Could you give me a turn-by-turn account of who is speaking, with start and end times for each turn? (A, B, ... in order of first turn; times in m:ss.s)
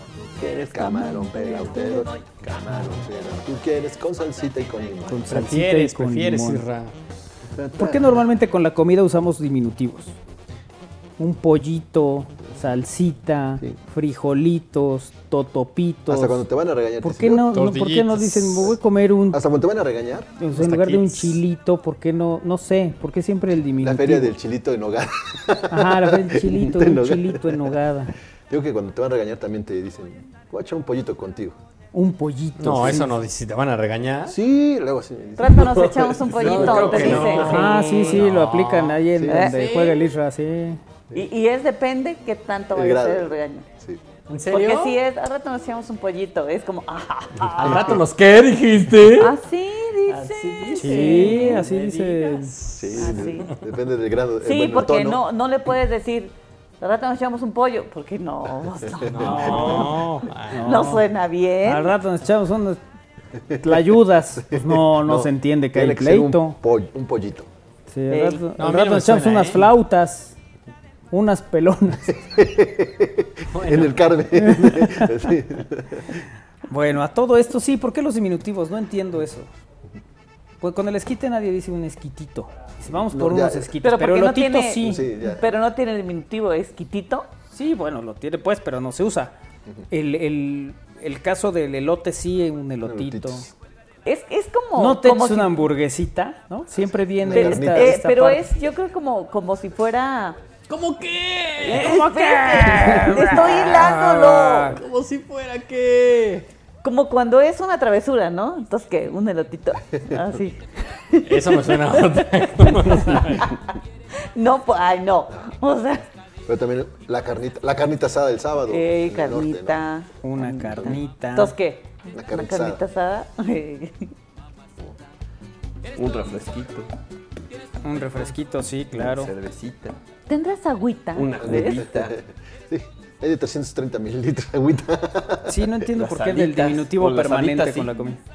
0:00.4-0:05.4 A
0:00.4-0:02.1 B
0:05.1-0:06.6 C
0:05.3-0:06.9 D
0:07.6-0:08.2 A
0:07.8-0:10.2 C
0:11.2-0:16.4 C
0:16.1-0:17.5 A
0:17.0-0:19.4 C
0:17.5-0:18.7 D
0:19.3-0:20.3 A
0:20.4-0:24.4 C
0:20.6-0:21.4 D
0:23.8-0:27.7 A
0:25.7-0:28.1 C
0:28.5-0:31.6 A
0:31.9-0:33.1 C
0:32.6-0:34.4 D
0:34.3-0:37.4 A
0:35.4-0:38.2 B
0:36.4-0:40.0 D
0:37.3-0:40.8 C
0:39.2-0:39.5 A
0:39.3-0:39.9 B
0:41.2-0:43.7 B
0:42.7-0:44.0 A
0:44.3-0:45.0 D
0:44.5-0:48.0 B
0:47.5-0:49.4 D
0:49.1-0:51.6 B
0:50.1-0:53.3 D
0:50.8-0:52.5 C
0:52.7-0:55.2 A
0:53.0-0:53.5 B
0:54.4-1:01.9 B
0:59.1-1:00.9 D
0:59.2-0:59.7 A
0:59.3-0:59.9 C
1:00.5-1:01.0 C
1:01.6-1:02.8 C
1:03.5-1:03.8 A
1:03.6-1:06.6 C
1:04.5-1:07.5 A
1:07.9-1:10.4 C
1:08.1-1:08.4 B
1:08.6-1:09.7 D
1:11.1-1:12.2 C
1:12.2-1:16.1 A
1:13.5-1:14.1 D
1:16.7-1:19.5 C
1:20.6-1:25.1 C
1:22.9-1:23.8 A
1:23.8-1:27.3 B
1:24.8-1:25.5 A
1:27.5-1:29.3 C
1:29.9-1:33.5 C
1:32.8-1:33.5 A
1:34.0-1:35.7 B
1:34.8-1:38.5 C
1:37.2-1:38.0 A
1:37.3-1:40.4 B
1:40.7-1:46.5 D
1:41.6-1:44.8 B
1:41.7-1:43.9 C
1:44.4-1:44.7 C
1:46.8-1:51.8 B
1:51.2-1:53.5 D
1:54.3-1:56.1 B
1:56.5-1:59.8 A
1:58.7-2:04.1 B
2:00.2-2:01.5 C
2:02.1-2:02.8 A
2:06.0-2:06.9 E
2:07.8-2:09.3 C
2:08.9-2:10.0 E
2:10.3-2:11.9 B
2:11.2-2:12.2 E
2:11.4-2:15.6 A
2:15.5-2:18.2 C
2:15.9-2:17.9 E